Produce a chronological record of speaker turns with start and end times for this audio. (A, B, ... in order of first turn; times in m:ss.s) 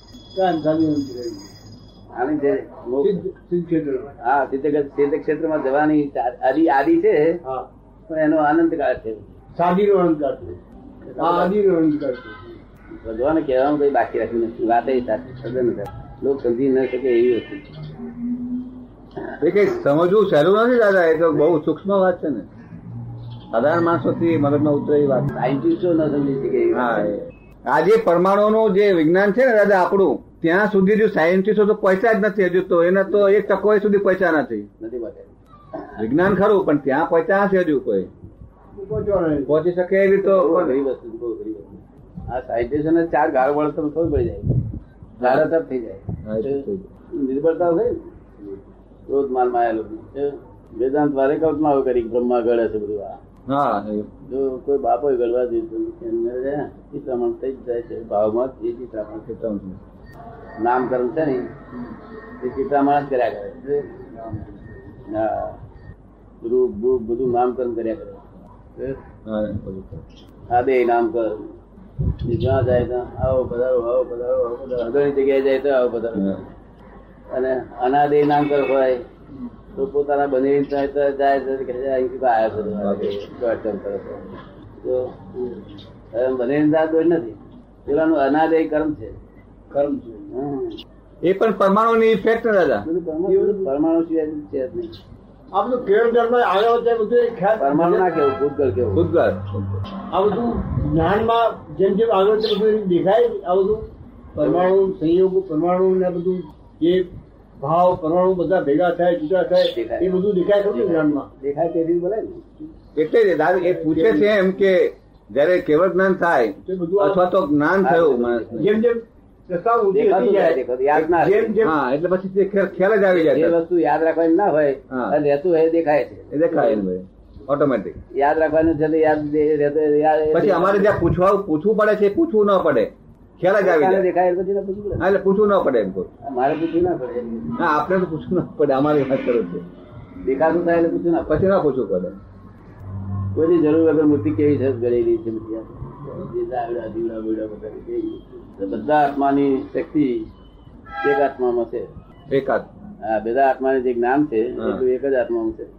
0:00.4-0:01.5 A
0:02.2-0:03.2 B
0:03.0-0:04.1 A
0:04.2-0:07.4 B
0:08.1-0:09.3 B
0:09.6-0:10.6 A
0:11.0-0:11.5 B
0:11.2-0:12.5 A
0:13.0-0:17.7 B
0:19.4-0:22.5 C
0:23.5-0:25.3 C
0:25.3-0:27.2 B
0:26.7-0:34.7 C
0:34.8-0:36.0 B
0:36.0-0:38.1 C
0:38.8-0:39.6 A
0:39.5-0:40.8 C
0:40.2-0:44.6 B
0:45.2-0:45.5 C
0:45.2-0:48.0 B
0:46.3-0:46.9 C
0:49.1-0:53.2 B
0:53.5-0:54.1 C
0:54.3-0:59.3 B
0:59.3-0:59.8 C
1:00.6-1:01.5 B
1:02.4-1:03.9 B
1:05.1-1:05.6 B
1:06.4-1:08.2 B
1:09.3-1:10.0 C
1:10.5-1:11.5 B
1:12.2-1:16.4 B
1:16.2-1:16.4 C
1:17.3-1:19.0 B
1:19.8-1:25.4 B
1:22.5-1:23.2 C
1:26.1-1:29.2 B
1:29.7-1:30.3 A
1:30.3-1:30.8 B
1:31.2-1:32.9 C
1:32.8-1:35.0 B
1:33.3-1:33.7 A
1:35.5-1:38.1 A
1:37.6-1:39.1 B
1:39.0-1:39.8 C
1:40.1-1:47.1 A
1:44.4-1:44.7 B
1:47.6-1:51.3 A
1:49.7-1:50.1 B
1:50.7-1:52.5 B
1:53.0-1:58.8 C
1:53.7-1:54.3 A
1:56.7-1:57.2 A
1:57.8-1:58.7 B
1:58.6-2:01.8 A
1:59.9-2:01.6 B
2:01.6-2:03.6 C
2:03.1-2:06.9 B
2:04.9-2:05.2 C
2:06.3-2:08.0 C
2:08.1-2:11.0 B
2:10.3-2:14.1 C
2:13.6-2:15.0 B
2:15.0-2:16.1 C
2:16.2-2:17.5 B
2:17.6-2:19.7 C
2:20.2-2:21.4 B
2:21.3-2:22.2 C
2:23.4-2:30.3 B
2:31.0-2:31.9 B
2:32.3-2:32.7 C
2:33.0-2:35.7 B
2:34.6-2:34.8 C